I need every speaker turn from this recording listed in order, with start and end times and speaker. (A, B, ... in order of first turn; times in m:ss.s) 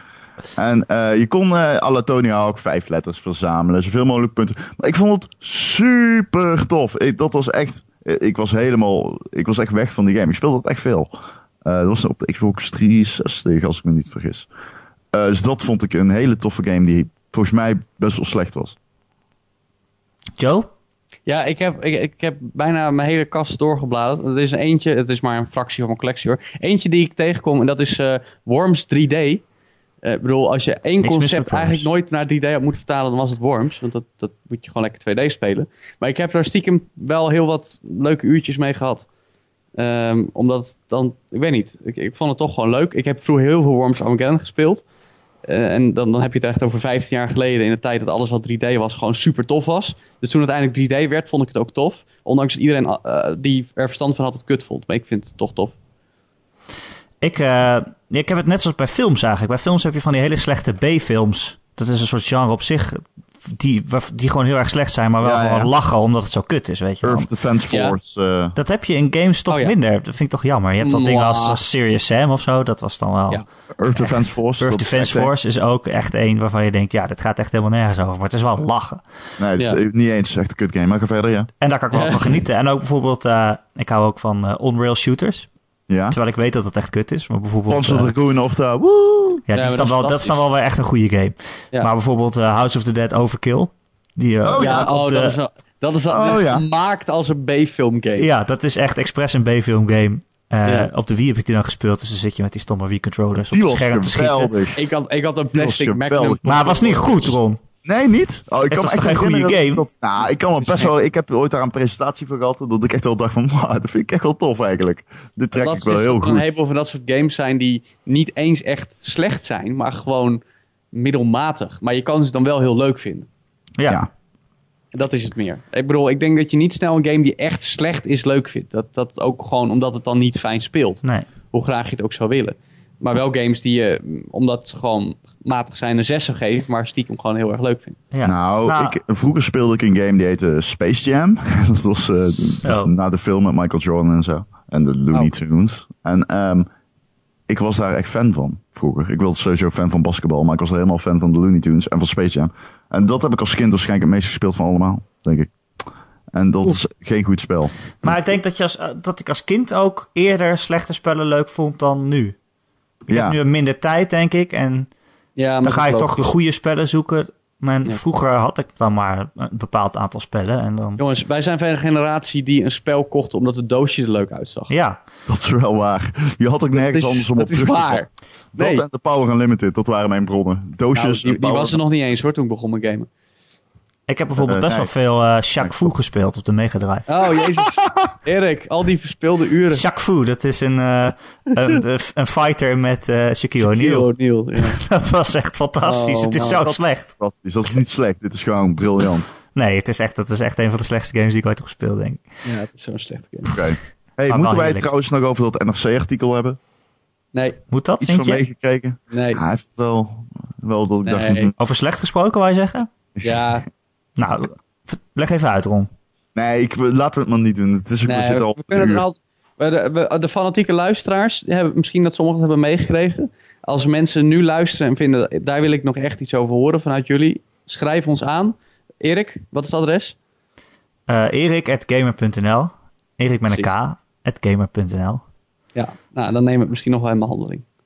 0:00.6-0:11.1 A
0:11.6-0:14.5 A
0:15.1-0:18.8 A
0:20.4-0:20.7 B
0:21.2-0:29.4 C
0:30.0-0:39.0 C
0:31.0-0:31.9 B
0:39.8-0:44.8 C
0:45.5-0:55.7 C
0:57.2-1:07.3 B
1:05.2-1:05.7 A
1:07.0-1:08.6 A
1:07.7-1:08.0 C
1:08.6-1:19.0 B
1:09.5-1:09.7 C
1:10.8-1:11.6 C
1:13.8-1:15.3 A
1:19.4-1:21.5 A
1:21.6-1:25.5 B
1:21.9-1:22.4 C
1:25.9-1:26.2 A
1:26.1-1:28.1 B
1:27.7-1:29.4 A
1:29.5-1:35.4 B
1:29.5-1:30.4 C
1:34.4-1:34.9 A
1:34.6-1:38.3 C
1:36.1-1:36.6 A
1:38.2-1:44.6 B
1:43.5-1:44.8 A
1:44.8-1:47.4 C
1:45.5-1:46.4 A
1:46.4-1:47.6 B
1:47.8-1:56.5 A
1:48.7-1:49.8 B
1:50.6-1:50.9 C
1:55.6-2:00.4 C
2:00.9-2:03.3 C
2:03.8-2:04.0 B
2:04.9-2:18.0 C
2:18.1-2:19.0 B
2:18.2-2:26.7 A
2:22.6-2:22.9 B
2:27.5-2:35.5 A
2:36.3-2:38.4 A
2:38.0-2:42.4 B
2:43.1-2:43.4 A
2:43.1-2:44.9 B
2:45.4-2:46.3 C
2:45.6-2:51.0 B
2:51.0-2:54.7 C
2:54.7-2:55.0 B
2:55.2-2:58.0 A
2:56.8-2:58.8 C
2:58.5-3:01.8 A
3:00.9-3:03.1 C
3:04.1-3:07.1 B
3:04.4-3:04.9 A
3:07.1-3:09.8 C
3:07.3-3:08.1 A
3:09.7-3:17.1 B
3:13.6-3:14.8 C
3:15.8-3:16.6 C
3:16.7-3:19.3 A
3:19.5-3:22.2 B
3:22.4-3:23.6 C
3:23.5-3:26.6 A
3:24.3-3:24.9 B
3:27.3-3:27.6 C
3:27.7-3:28.4 B
3:28.0-3:31.5 A
3:29.1-3:29.4 C
3:31.0-3:31.5 C
3:31.6-3:32.9 B
3:33.2-3:33.6 C
3:34.2-3:35.9 B
3:36.3-3:39.0 A
3:38.0-3:50.1 C
3:51.1-3:55.2 B
3:55.7-3:57.6 C